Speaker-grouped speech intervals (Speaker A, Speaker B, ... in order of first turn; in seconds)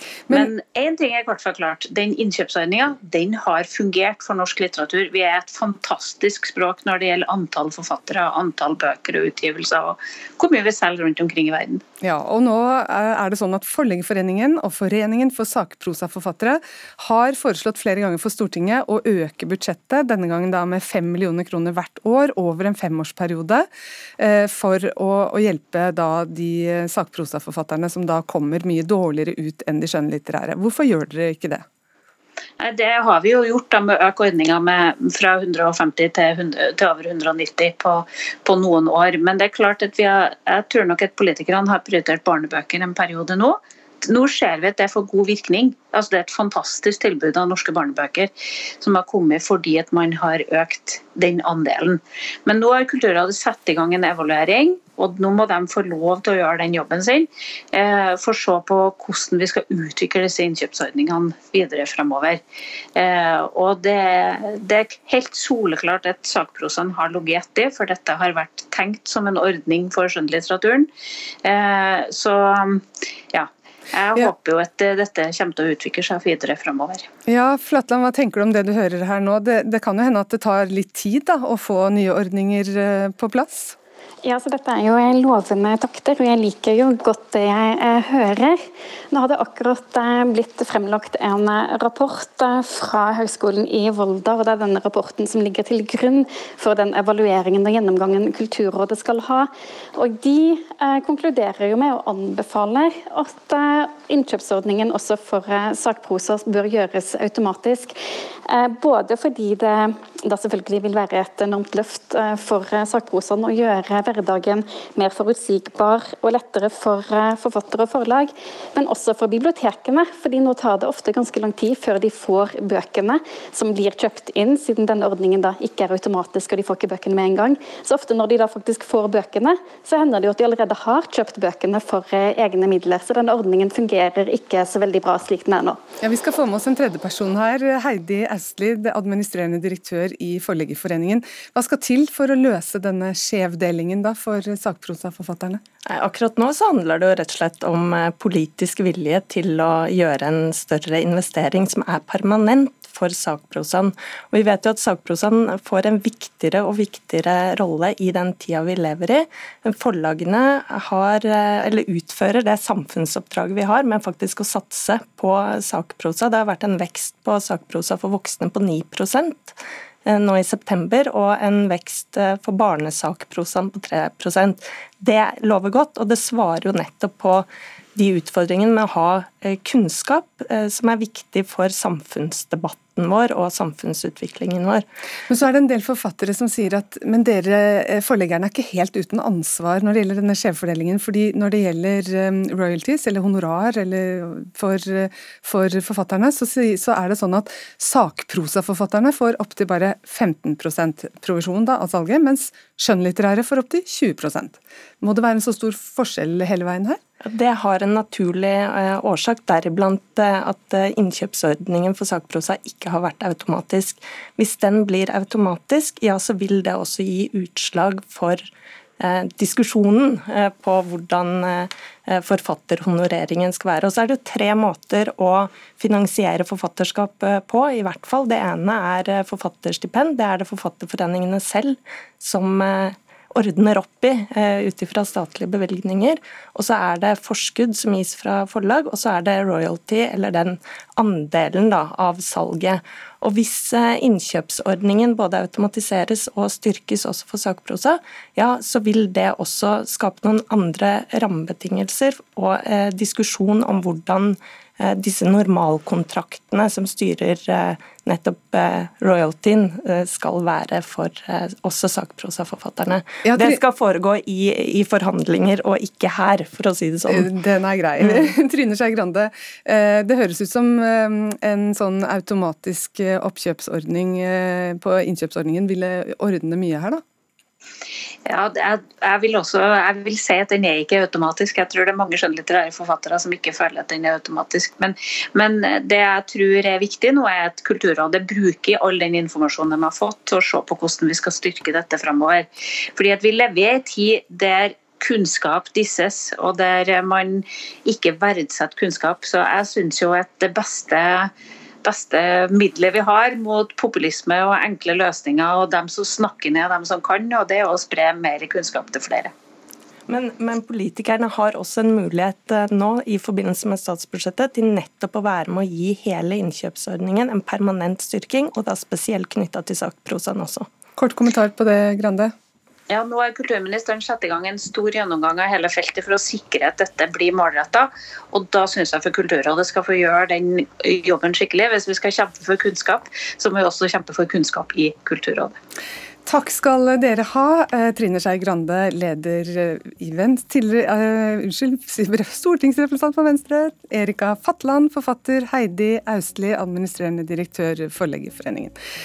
Speaker A: 0.3-11.8, 32.6-62.4, 63.0-70.9, 71.5-77.1, 278.3-301.3, 301.9-309.3, 322.9-335.6
Speaker B: 12.0-23.7, 24.2-31.6, 77.3-83.8, 136.0-145.6, 185.3-207.0, 263.3-263.6, 267.1-277.0, 321.0-322.3, 336.3-348.8
Speaker C: 84.2-88.6, 89.1-135.8
Speaker D: 145.9-184.9, 207.2-218.5, 219.0-267.4, 268.0-268.3, 310.1-320.7